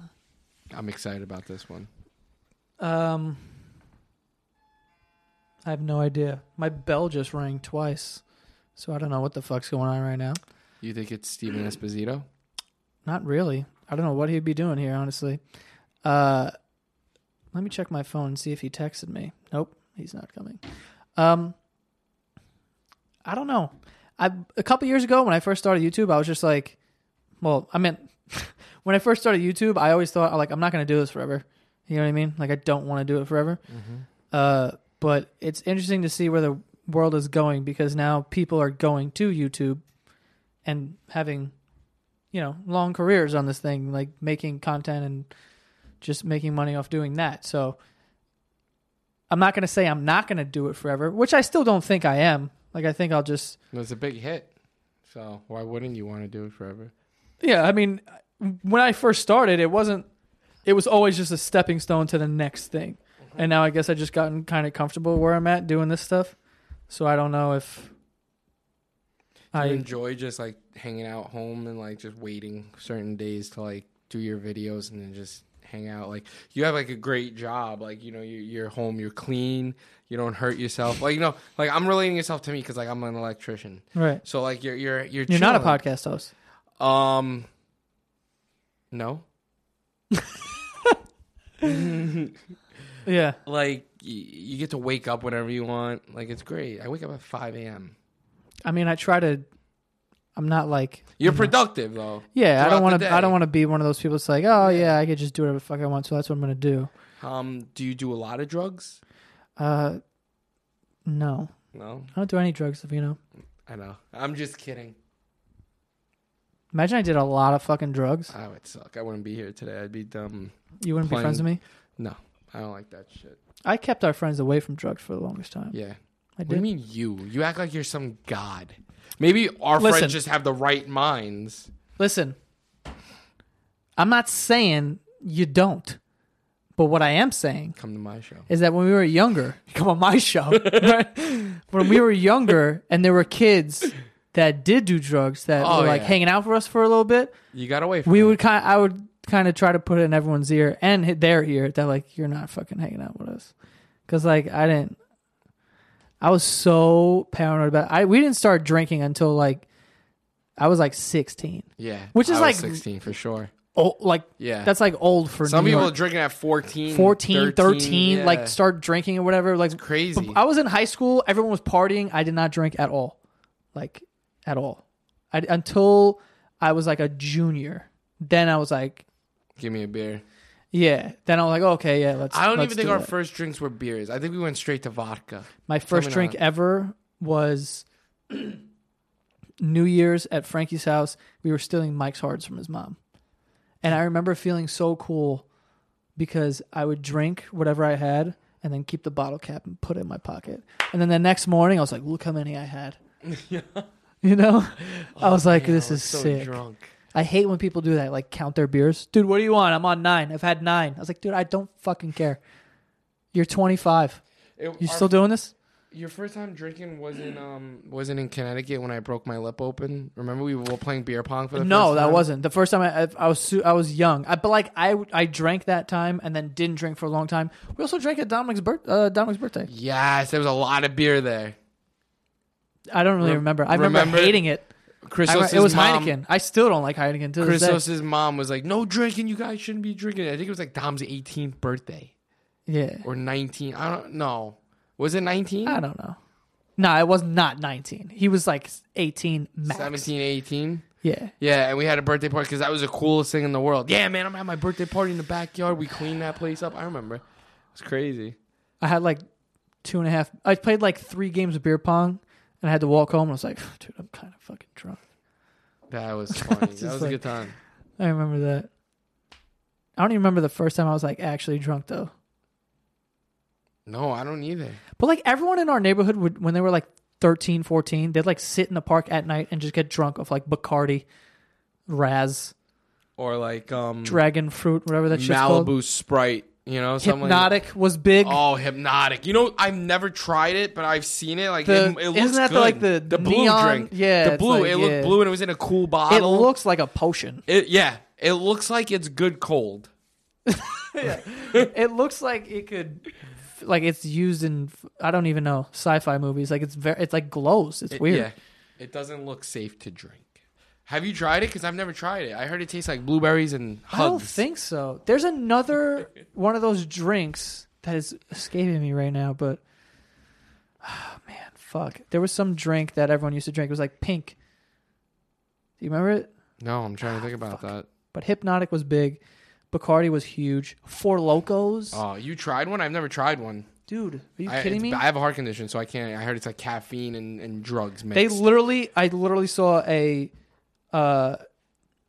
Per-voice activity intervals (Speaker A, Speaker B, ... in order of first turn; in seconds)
Speaker A: 0.7-1.9, 10.8-12.2, 33.7-34.0, 53.7-54.5, 55.1-56.9, 69.5-85.8, 86.8-87.5, 88.9-89.2, 91.6-92.4, 93.5-97.9, 101.2-103.3, 104.6-104.9, 107.2-109.0, 111.7-112.1, 113.7-115.0, 118.3-121.5, 122.0-123.4, 125.7-131.7, 137.8-138.5, 140.5-140.9, 145.6-146.2, 147.5-148.4, 161.8-163.5, 164.4-164.7, 165.4-168.6, 169.7-170.4, 179.6-180.2, 182.3-186.4, 203.2-203.9, 205.0-206.9, 214.6-215.2, 215.9-222.2, 229.7-231.6, 233.2-234.4, 235.0-236.1, 237.4-242.1, 243.0-245.8, 249.7-250.8, 251.4-257.2, 257.7-258.4, 265.9-267.6, 273.9-274.8, 283.2-284.2, 285.1-287.5, 288.2-296.5, 297.5-299.9, 301.0-301.7, 307.9-314.4, 326.6-327.9, 331.9-333.7, 334.4-338.4
Speaker B: 2.8-3.5, 5.6-8.2, 8.8-10.4, 13.0-15.4, 16.0-16.5, 17.5-20.6, 21.1-21.6, 23.2-26.8, 27.4-33.6, 34.3-39.8, 40.6-41.5, 42.3-45.3, 46.0-47.8, 49.3-53.6, 57.4-60.0, 60.6-66.3, 66.9-67.9, 69.5-69.9, 83.9-84.2, 85.3-86.3, 93.0-93.4, 98.6-99.5, 100.3-101.5, 102.3-106.9, 109.6-110.0, 111.0-111.5, 112.1-113.2, 116.7-118.3, 120.8-121.6, 123.6-125.7, 126.4-126.6, 129.8-130.2, 132.0-132.3, 134.0-136.0, 136.8-137.8, 138.5-147.3, 148.1-153.5, 154.1-155.0, 156.2-159.6, 160.6-162.8, 163.7-165.9, 166.9-173.2, 173.7-179.0, 180.7-183.1, 185.7-188.6, 189.6-193.0, 193.8-195.4, 196.2-203.0, 204.2-206.6, 207.1-212.4, 213.3-214.2, 214.8-215.5, 221.5-229.7, 232.9-234.7, 235.2-237.8, 242.7-243.0, 245.7-246.2, 246.8-250.1, 251.0-251.3, 258.8-259.2, 259.8-265.0, 266.3-267.2, 268.0-268.7, 270.0-272.1, 275.0-281.1, 281.9-282.5, 284.0-285.7, 287.0-288.4, 291.6-295.2, 296.1-297.4, 300.4-308.3, 313.9-319.6, 320.8-324.4, 325.8-326.3, 327.0-332.0, 333.9-335.0, 338.1-340.3, 340.9-341.4